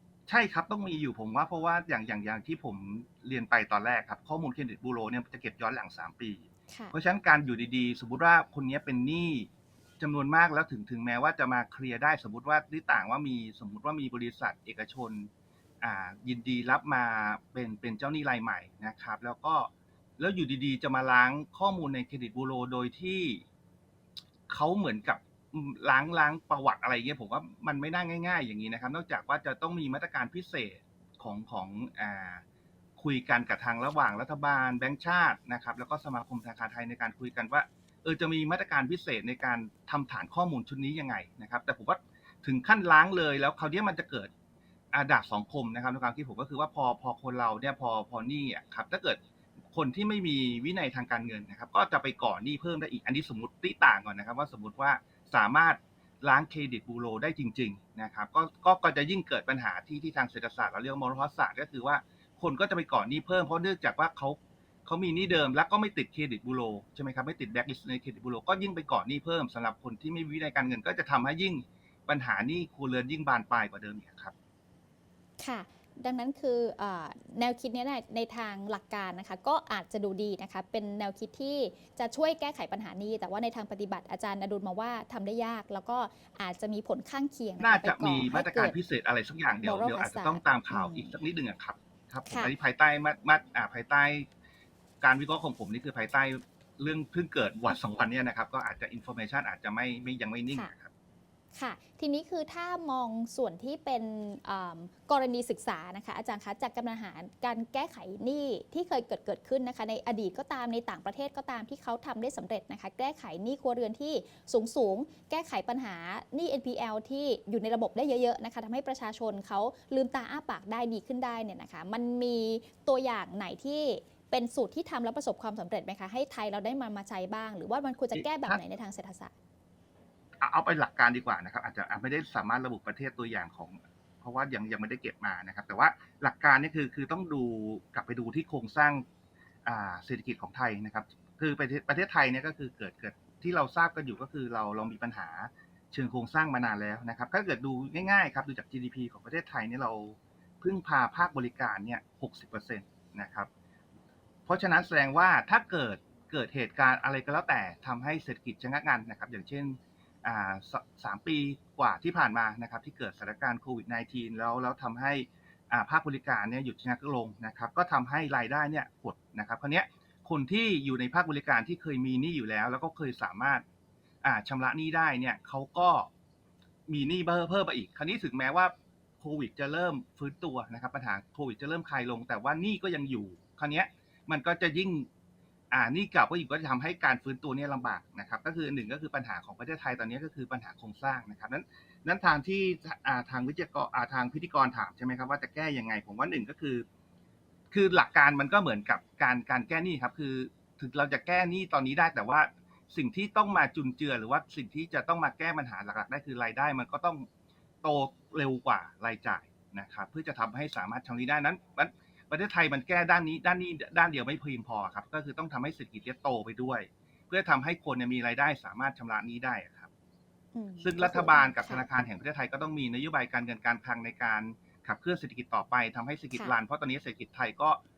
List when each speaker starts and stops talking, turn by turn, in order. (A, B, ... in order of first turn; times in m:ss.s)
0:00.3-0:09.5 A
0:10.0-0:15.3 A
0:15.8-0:23.4 A
0:24.5-0:32.4 A
0:33.0-0:44.3 A
0:44.9-1:14.3 A
1:15.4-1:28.8 B
1:27.6-1:34.3 A
1:29.6-1:31.2 B
1:32.3-1:32.5 B
1:35.0-1:40.9 A
1:41.6-2:09.3 B
2:08.1-2:08.6 A
2:10.4-2:19.0 A
2:19.6-2:33.5 A
2:34.5-2:53.6 A
2:54.2-2:56.1 A
2:56.9-3:05.1 A
3:05.7-3:16.8 A
3:17.7-3:27.3 A
3:27.8-3:39.9 A
3:40.6-3:41.9 B
3:40.8-3:47.8 A